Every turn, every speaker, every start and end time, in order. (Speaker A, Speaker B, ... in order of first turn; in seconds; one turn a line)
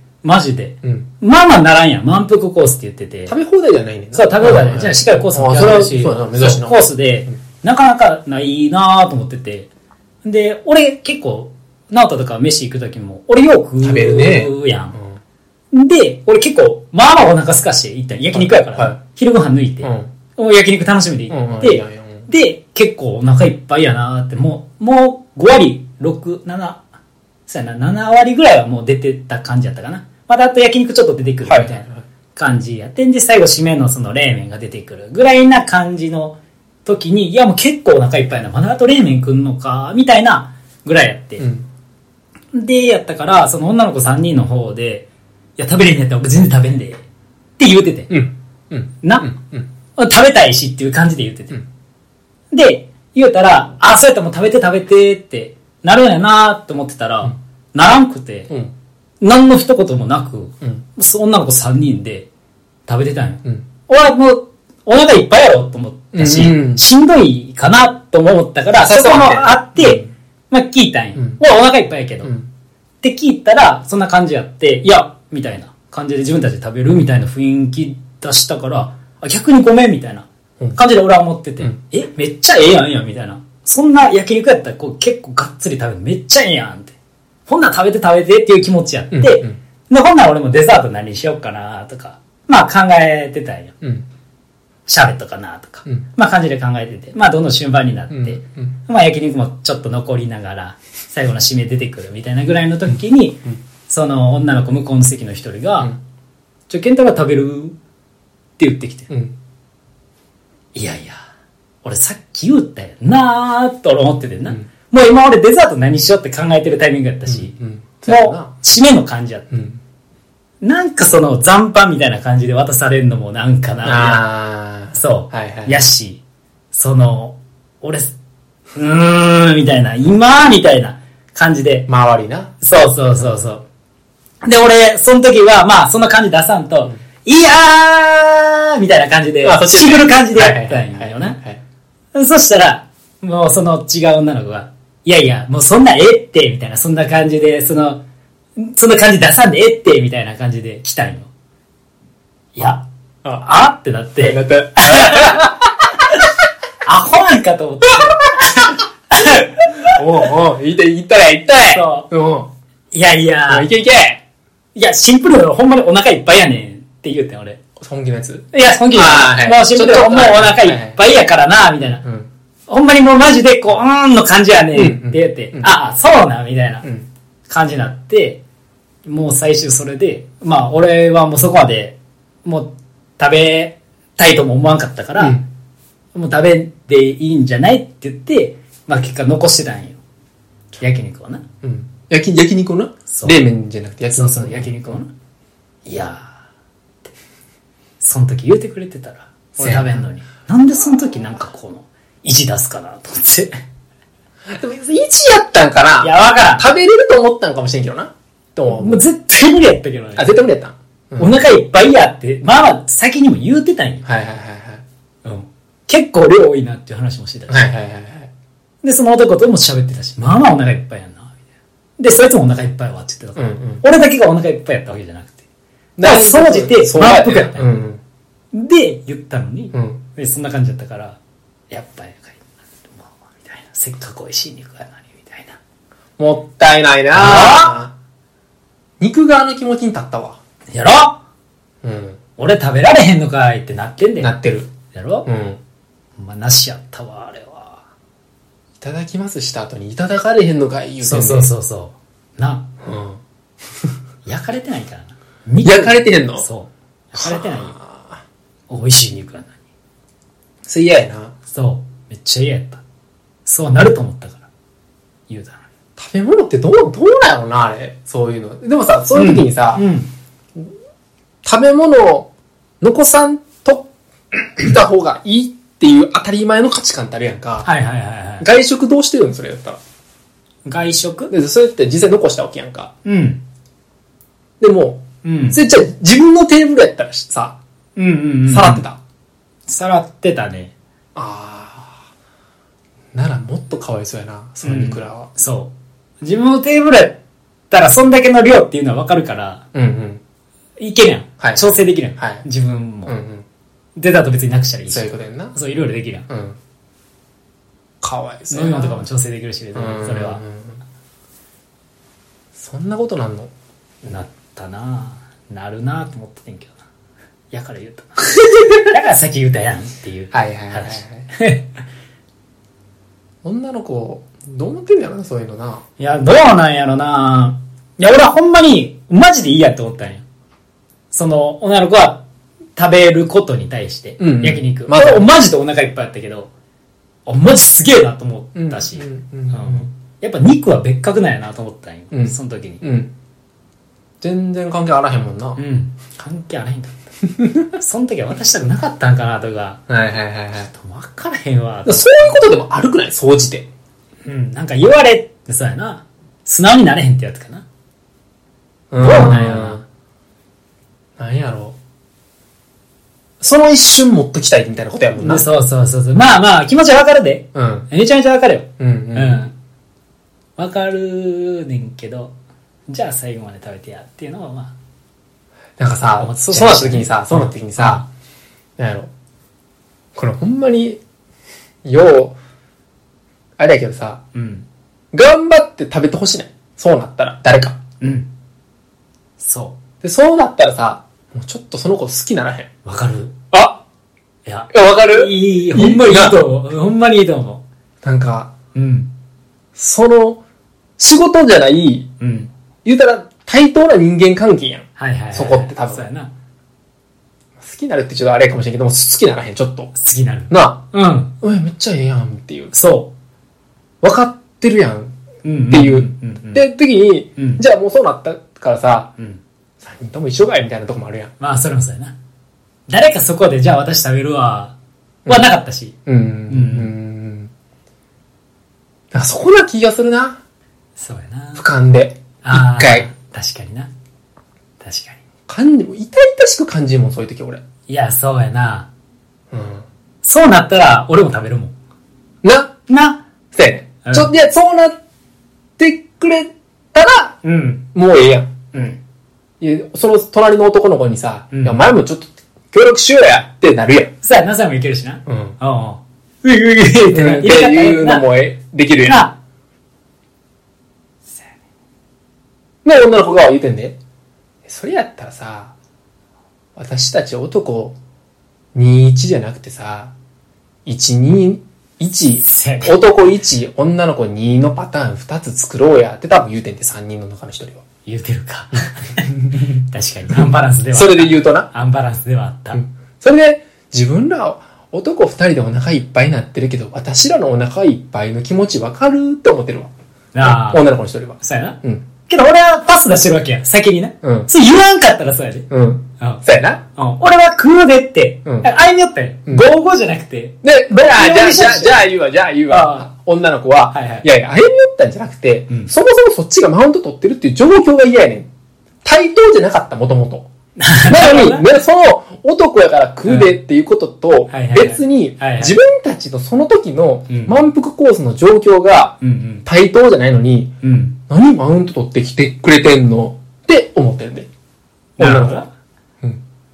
Speaker A: 0.2-3.3
Speaker B: 0.8-1.1
Speaker B: 3.3-6.9
Speaker A: 4.1-9.7
Speaker A: 10.2-15.0
Speaker B: 13.8-15.2
Speaker A: 15.7-26.8
Speaker B: 18.3-19.0
Speaker B: 19.8-20.1
Speaker B: 21.3-22.3
Speaker A: 27.5-41.5
Speaker B: 31.4-32.0
Speaker B: 41.4-41.7
Speaker A: 42.5-47.0
Speaker A: 47.6-48.1
Speaker B: 48.1-49.7
Speaker A: 49.0-49.3
Speaker A: 50.0-51.6
Speaker A: 52.5-58.5
Speaker A: 59.2-62.3
Speaker A: 62.9-72.3
Speaker B: 66.1-66.8
Speaker B: 68.8-70.1
Speaker B: 72.2-72.5
Speaker A: 73.0-87.0
Speaker A: 87.5-93.7
Speaker B: 89.1-89.6
Speaker B: 93.8-94.1
Speaker A: 94.9-106.0
Speaker B: 98.1-98.8
Speaker A: 106.7-107.8
Speaker A: 108.6-109.1
Speaker B: 109.1-109.4
Speaker A: 110.8-111.2
Speaker A: 111.8-117.5
Speaker B: 117.3-118.5
Speaker A: 118.1-119.5
Speaker B: 119.5-119.8
Speaker A: 120.6-124.2
Speaker B: 123.8-125.8
Speaker A: 124.9-126.2
Speaker A: 126.7-128.2
Speaker A: 128.8-131.9
Speaker B: 131.9-132.6
Speaker A: 132.6-133.7
Speaker A: 134.4-141.4
Speaker B: 139.4-141.6
Speaker A: 142.1-148.0
Speaker A: 148.6-151.3
Speaker A: 152.6-152.8
Speaker B: 153.2-153.6
Speaker A: 153.4-155.7
Speaker B: 154.2-155.7
Speaker A: 156.8-160.0
Speaker B: 159.9-162.5
Speaker A: 161.6-162.1
Speaker A: 162.9-163.7
Speaker B: 163.5-164.2
Speaker A: 164.8-167.6
Speaker B: 167.8-171.0
Speaker A: 168.5-172.0
Speaker B: 172.0-172.3
Speaker A: 172.7-176.9
Speaker B: 174.7-175.8
Speaker A: 177.5-178.4
Speaker A: 179.1-185.4
Speaker B: 185.2-185.5
Speaker A: 186.1-190.0
Speaker A: 190.8-191.4
Speaker B: 191.6-195.0
Speaker A: 193.1-193.4
Speaker A: 194.1-195.1
Speaker A: 195.9-196.3
Speaker A: 198.0-203.6
Speaker B: 199.6-200.1
Speaker B: 204.5-209.1
Speaker A: 206.0-206.7
Speaker A: 208.7-210.3
Speaker B: 210.2-211.4
Speaker A: 211.2-214.0
Speaker B: 214.1-214.8
Speaker A: 215.2-217.7
Speaker B: 217.5-218.3
Speaker A: 218.8-221.3
Speaker A: 222.0-225.4
Speaker B: 223.4-223.8
Speaker B: 226.0-228.0
Speaker A: 226.0-227.7
Speaker A: 228.5-231.2
Speaker B: 229.7-230.0
Speaker A: 231.7-235.6
Speaker B: 236.2-237.9
Speaker A: 237.1-237.8
Speaker B: 239.0-240.4
Speaker A: 240.7-241.2
Speaker B: 241.8-242.2
Speaker A: 242.4-244.3
Speaker B: 244.2-244.7
Speaker A: 244.9-245.3
Speaker B: 245.3-245.6
Speaker A: 246.2-247.8
Speaker B: 248.8-251.5
Speaker A: 251.0-252.7
Speaker B: 252.8-253.2
Speaker A: 254.3-257.7
Speaker B: 255.6-256.5
Speaker B: 257.1-258.2
Speaker A: 258.7-259.6
Speaker B: 260.7-261.3
Speaker A: 261.5-262.8
Speaker A: 263.5-264.5
Speaker A: 265.3-265.6
Speaker B: 266.0-269.8
Speaker A: 269.1-270.1
Speaker B: 271.4-273.9
Speaker B: 274.6-277.7
Speaker A: 277.6-278.4
Speaker B: 278.4-279.8
Speaker A: 280.7-281.3
Speaker B: 281.3-282.9
Speaker A: 283.1-283.4
Speaker B: 284.6-287.6
Speaker A: 285.2-285.6
Speaker A: 288.0-288.8
Speaker B: 288.5-289.0
Speaker A: 289.7-290.7
Speaker B: 291.1-292.0
Speaker B: 293.1-295.3
Speaker A: 294.6-297.2
Speaker A: 297.7-299.6
Speaker B: 299.7-300.2
Speaker A: 300.8-303.1
Speaker B: 301.4-302.4
Speaker B: 303.1-303.4
Speaker A: 304.0-306.3
Speaker B: 304.9-305.6
Speaker B: 306.3-306.6
Speaker B: 308.0-309.0
Speaker A: 308.5-310.4
Speaker B: 309.8-310.8
Speaker B: 312.6-313.5
Speaker A: 314.0-316.8
Speaker A: 317.5-321.7
Speaker B: 320.3-321.2
Speaker B: 323.4-325.8
Speaker A: 326.0-330.2
Speaker A: 331.1-332.2
Speaker A: 332.8-336.5
Speaker B: 334.2-335.3
Speaker A: 337.3-342.8
Speaker B: 338.6-339.9
Speaker B: 342.1-343.1
Speaker B: 344.2-345.6
Speaker A: 345.6-346.9
Speaker B: 347.3-347.7
Speaker A: 347.7-349.8
Speaker B: 349.9-350.7
Speaker A: 350.7-352.3
Speaker B: 351.9-353.7
Speaker A: 354.2-357.6
Speaker B: 358.9-359.8
Speaker A: 359.0-359.8
Speaker B: 361.2-361.8
Speaker B: 363.4-365.5
Speaker A: 365.2-369.5
Speaker B: 367.5-367.9
Speaker B: 368.8-369.5
Speaker A: 370.6-372.4
Speaker A: 372.9-374.7
Speaker B: 375.8-378.0
Speaker A: 376.2-378.1
Speaker B: 378.8-379.1
Speaker B: 380.1-381.0
Speaker B: 381.9-382.4
Speaker B: 383.6-384.2
Speaker A: 384.3-384.7
Speaker B: 385.1-387.8
Speaker A: 388.0-388.3
Speaker A: 389.4-389.8
Speaker B: 390.0-392.7
Speaker A: 392.9-393.3
Speaker B: 393.5-393.8
Speaker A: 394.4-397.6
Speaker B: 394.7-396.4
Speaker B: 398.0-398.5
Speaker A: 398.8-399.1
Speaker B: 399.8-400.4
Speaker B: 401.0-402.1
Speaker A: 402.2-402.5
Speaker B: 402.9-406.1
Speaker A: 405.0-406.3
Speaker B: 407.6-409.9
Speaker A: 409.9-411.3
Speaker B: 410.5-410.9
Speaker B: 411.4-412.8
Speaker A: 412.7-413.1
Speaker B: 414.0-415.2
Speaker A: 415.4-416.6
Speaker B: 415.7-419.1
Speaker B: 419.8-421.3
Speaker A: 421.4-422.2
Speaker A: 422.9-424.8
Speaker A: 425.3-426.0
Speaker B: 426.1-427.5
Speaker A: 426.5-426.9
Speaker B: 429.1-430.4
Speaker A: 431.0-431.6
Speaker B: 431.6-433.1
Speaker A: 432.4-433.9
Speaker A: 434.8-435.2
Speaker B: 435.5-437.6
Speaker A: 437.9-438.9
Speaker B: 439.5-439.9
Speaker A: 440.2-441.7
Speaker B: 442.4-442.7
Speaker A: 442.9-443.2
Speaker B: 443.5-445.0
Speaker A: 444.0-444.3
Speaker B: 445.8-447.4
Speaker A: 447.4-447.9
Speaker B: 447.9-448.5
Speaker A: 448.7-449.0
Speaker B: 449.6-454.1
Speaker A: 451.5-451.8
Speaker A: 454.2-458.3
Speaker B: 455.3-455.6
Speaker B: 457.1-459.3
Speaker A: 459.1-459.4
Speaker B: 462.9-464.0
Speaker B: 464.7-465.7
Speaker B: 466.8-468.0
Speaker B: 468.8-470.1
Speaker B: 470.9-477.8
Speaker A: 472.4-473.0
Speaker A: 478.1-482.8
Speaker B: 479.4-479.6
Speaker B: 480.4-481.7
Speaker B: 482.7-492.1
Speaker A: 490.3-490.9
Speaker A: 491.4-495.7
Speaker B: 494.2-494.5
Speaker B: 495.7-496.8
Speaker A: 496.2-502.1
Speaker B: 500.6-508.5
Speaker A: 502.7-503.1
Speaker A: 503.9-504.3
Speaker B: 509.1-510.5
Speaker A: 510.8-511.7
Speaker B: 511.1-520.7
Speaker A: 513.3-513.6
Speaker A: 514.5-515.8
Speaker A: 517.3-517.6
Speaker A: 519.2-519.6
Speaker A: 520.8-521.2
Speaker B: 521.3-524.5
Speaker B: 525.2-525.6
Speaker A: 525.2-525.7